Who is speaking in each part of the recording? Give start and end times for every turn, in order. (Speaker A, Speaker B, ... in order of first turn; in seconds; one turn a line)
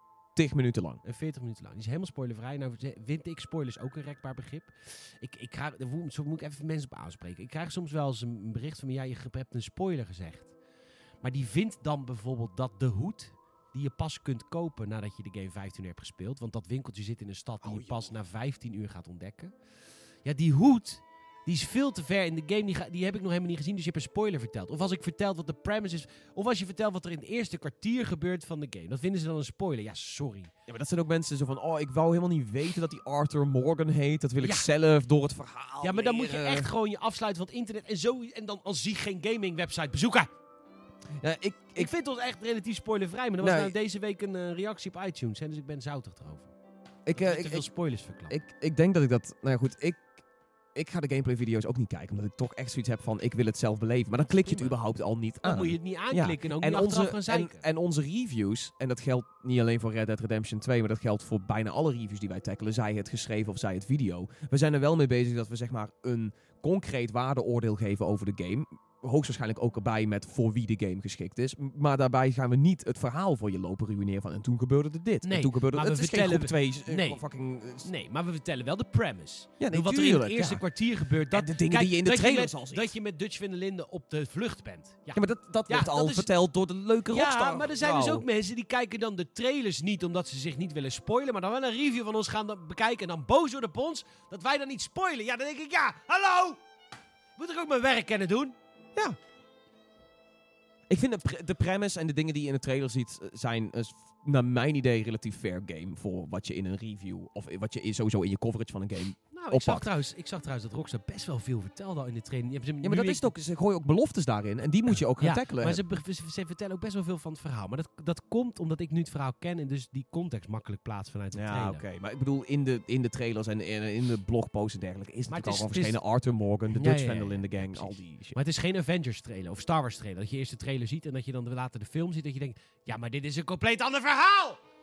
Speaker A: 0.3-1.0
Speaker B: 1.0-10.6
Speaker B: 11.2-19.6
Speaker A: 17.6-18.2
Speaker B: 20.2-30.5
Speaker A: 30.7-36.7
Speaker B: 34.4-34.7
Speaker B: 35.8-40.3
Speaker A: 41.2-41.9
Speaker B: 41.8-46.5
Speaker A: 43.4-43.7
Speaker A: 47.1-47.7
Speaker B: 47.1-48.4
Speaker A: 48.3-50.2
Speaker A: 50.7-77.9
Speaker B: 54.2-54.7
Speaker B: 55.4-57.6
Speaker B: 75.2-77.2
Speaker B: 77.8-86.3
Speaker A: 79.6-80.7
Speaker A: 81.3-82.9
Speaker A: 85.1-88.2
Speaker B: 87.1-96.6
Speaker B: 97.4-98.5
Speaker A: 100.9-109.9
Speaker B: 109.3-113.3
Speaker A: 112.8-115.8
Speaker B: 115.2-121.8
Speaker A: 121.3-128.4
Speaker B: 125.3-126.0
Speaker B: 126.7-134.6